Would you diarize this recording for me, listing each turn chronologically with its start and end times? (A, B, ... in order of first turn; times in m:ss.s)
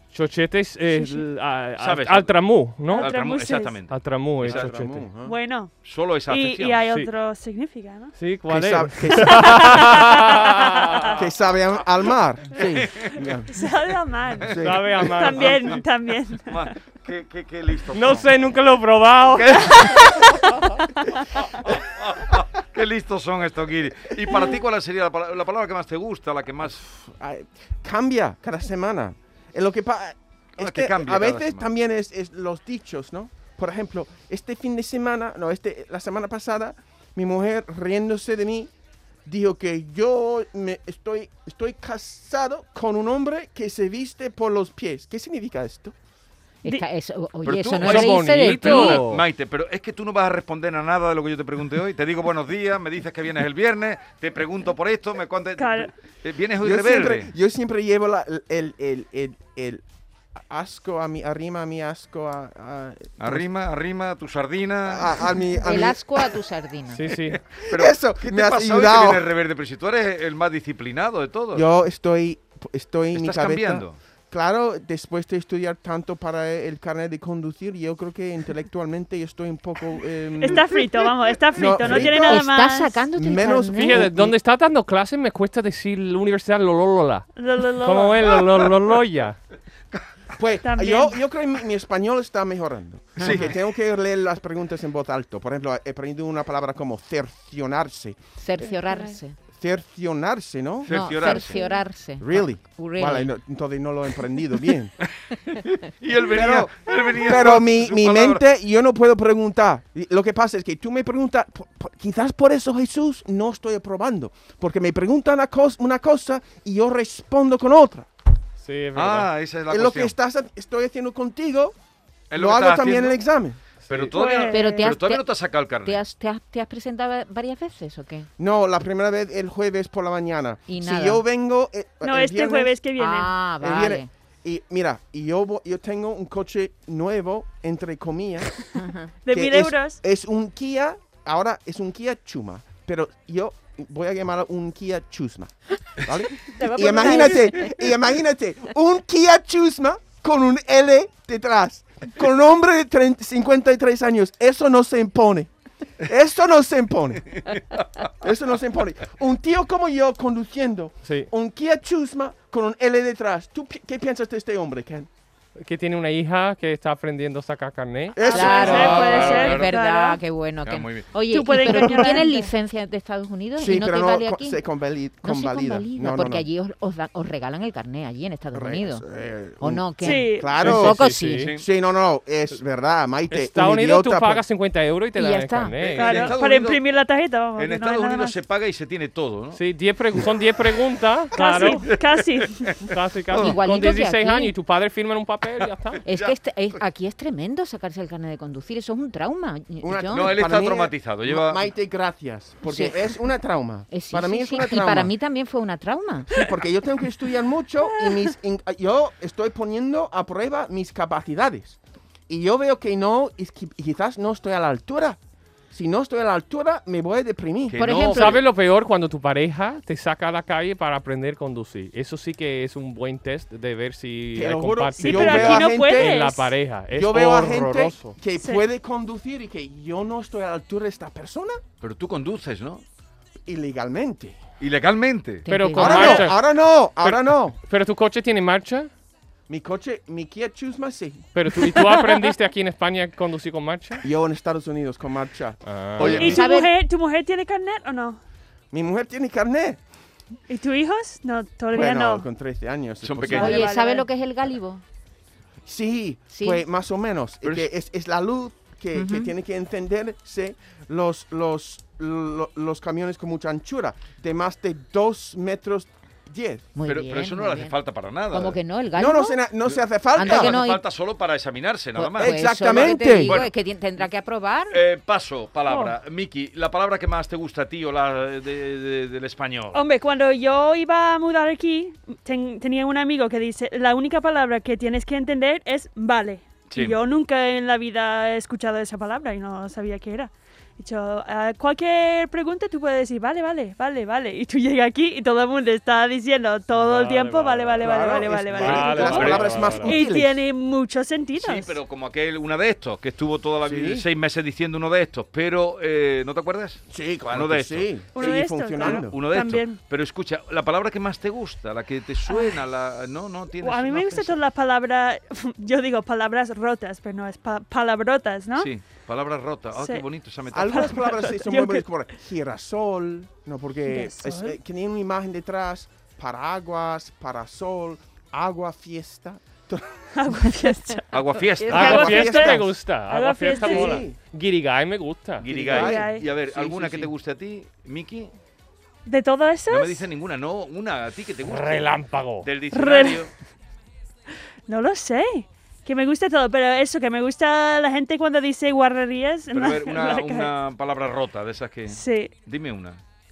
0:00.1-0:03.1 A
0:00.9-0:01.2 B
0:01.8-0:02.4 C
0:02.9-0:03.8 B
0:03.0-0:04.7 C
0:03.9-0:05.0 A
0:04.4-0:05.3 D
0:05.2-0:05.8 B
0:05.8-0:06.8 C
0:06.3-0:08.1 B
0:08.2-0:11.1 A
0:08.5-0:09.8 D
0:09.2-0:11.2 B
0:11.2-0:13.5 D
0:12.7-0:13.1 C
0:13.5-0:16.7 B
0:14.5-0:15.0 D
0:14.6-0:15.8 A
0:15.4-0:15.8 C
0:16.5-0:18.3 C
0:17.9-0:19.8 A
0:19.3-0:20.4 C
0:21.6-0:26.8 C
0:26.8-0:38.7 D
0:30.6-0:31.6 C
0:39.2-0:45.9 D
0:46.6-0:49.0 E
0:47.4-0:57.3 C
0:47.8-0:49.2 A
0:55.6-0:55.9 B
0:56.6-0:59.8 D
1:00.3-1:03.4 D
1:03.2-1:05.2 C
1:04.8-1:06.0 D
1:05.6-1:07.0 E
1:06.9-1:07.4 A
1:07.5-1:11.6 C
1:07.7-1:09.2 D
1:11.5-1:20.8 D
1:13.1-1:14.0 C
1:20.4-1:23.0 B
1:21.5-1:22.5 D
1:21.8-1:24.1 E
1:23.1-1:24.4 D
1:23.7-1:29.4 A
1:27.4-1:28.4 B
1:30.3-1:38.2 D
1:30.6-1:31.2 B
1:33.2-1:33.5 E
1:33.2-1:33.5 C
1:38.4-1:39.4 E
1:38.7-1:39.2 B
1:39.5-1:41.4 D
1:40.8-1:41.6 C
1:40.9-1:43.3 E
1:42.2-1:44.9 D
1:45.0-1:48.4 C
1:46.3-1:58.1 D
1:58.6-1:59.3 A
1:58.9-2:00.1 C
1:59.7-2:01.7 D
2:02.3-2:03.2 C
2:02.3-2:03.6 D
2:03.8-2:04.1 A
2:03.9-2:06.0 C
2:04.1-2:04.8 B
2:04.4-2:05.3 E
2:05.8-2:08.3 E
2:08.4-2:12.8 D
2:10.7-2:11.2 E
2:12.0-2:13.5 B
2:13.0-2:14.1 E
2:13.6-2:18.6 D
2:18.8-2:19.1 E
2:19.2-2:20.0 B
2:19.3-2:35.5 D
2:26.6-2:27.7 B
2:36.0-2:37.4 D
2:38.2-2:45.1 D
2:41.0-2:41.3 A
2:45.6-2:48.2 A
2:48.1-2:49.2 D
2:48.2-2:50.2 B
2:48.3-2:54.6 E
2:48.4-2:49.7 C
2:50.6-2:51.1 C
2:51.3-2:52.5 B
2:53.6-2:56.4 D
2:55.2-2:59.0 E
2:58.5-3:04.4 D
2:59.6-3:01.4 E
3:00.0-3:00.5 B
3:00.6-3:01.5 A
3:01.4-3:01.6 C
3:03.3-3:06.3 A
3:05.2-3:05.9 E
3:05.8-3:06.8 C
3:06.0-3:08.4 B
3:07.6-3:09.6 C
3:09.5-3:11.8 A
3:11.3-3:12.7 B
3:11.4-3:12.8 C
3:12.9-3:16.0 A
3:13.4-3:14.5 E
3:16.0-3:16.8 C
3:16.0-3:20.5 E
3:19.8-3:25.1 D
3:20.1-3:21.7 C
3:22.7-3:23.0 E
3:23.9-3:26.4 E
3:26.3-3:35.2 D
3:35.7-3:37.8 D
3:37.7-3:38.4 C
3:37.8-3:38.4 E
3:38.0-3:48.1 A
3:44.3-3:46.2 D
3:45.0-3:46.5 B
3:46.9-3:51.6 D
3:51.8-3:52.8 C
3:53.4-3:54.4 D
3:54.6-3:55.4 C
3:55.4-3:56.3 E
3:55.5-3:56.4 A
3:55.8-3:57.6 D
3:57.0-3:58.9 A
3:59.5-4:01.3 D
4:01.3-4:04.0 A
4:04.0-4:06.2 D
4:05.6-4:06.4 A
4:06.0-4:06.4 C
4:06.1-4:08.2 B
4:06.2-4:06.7 E
4:08.7-4:09.8 D
4:10.5-4:12.3 B
4:11.7-4:13.7 D
4:13.0-4:13.6 C
4:13.3-4:14.0 B
4:13.3-4:14.8 E
4:15.6-4:26.7 D
4:16.3-4:16.6 E
4:17.4-4:17.7 C
4:18.9-4:19.3 E
4:26.8-4:27.7 E
4:26.8-4:28.6 C
4:28.3-4:29.4 E
4:28.9-4:30.6 D
4:30.1-4:30.8 E
4:30.2-4:34.0 C
4:32.0-4:34.8 E
4:32.2-4:33.4 D
4:34.7-4:39.8 C
4:35.7-4:35.9 B
4:39.7-5:01.8 B
4:46.7-4:47.0 C
4:56.7-4:57.9 A
4:57.8-5:00.4 D
4:58.5-5:00.0 A
4:59.2-4:59.4 C
5:01.4-5:08.1 C
5:03.6-5:04.0 D
5:06.9-5:09.2 D
5:08.1-5:09.8 B
5:08.8-5:14.4 C
5:12.3-5:12.6 B
5:13.6-5:18.7 B
5:18.6-5:21.1 C
5:19.8-5:20.0 B
5:20.5-5:30.0 D
5:20.6-5:21.8 B
5:23.9-5:24.6 B
5:30.2-5:31.0 B
5:31.1-5:32.2 C
5:31.6-5:34.0 B
5:31.7-5:35.4 A
5:31.7-5:32.7 D
5:33.6-5:34.2 D
5:35.4-5:38.3 C
5:35.4-5:37.1 D
5:35.7-5:36.3 B
5:39.0-5:40.0 B
5:39.7-5:43.3 C
5:41.4-5:42.5 A
5:42.7-5:43.3 B
5:44.7-5:50.5 B
5:49.5-5:53.0 C
5:51.9-5:52.3 B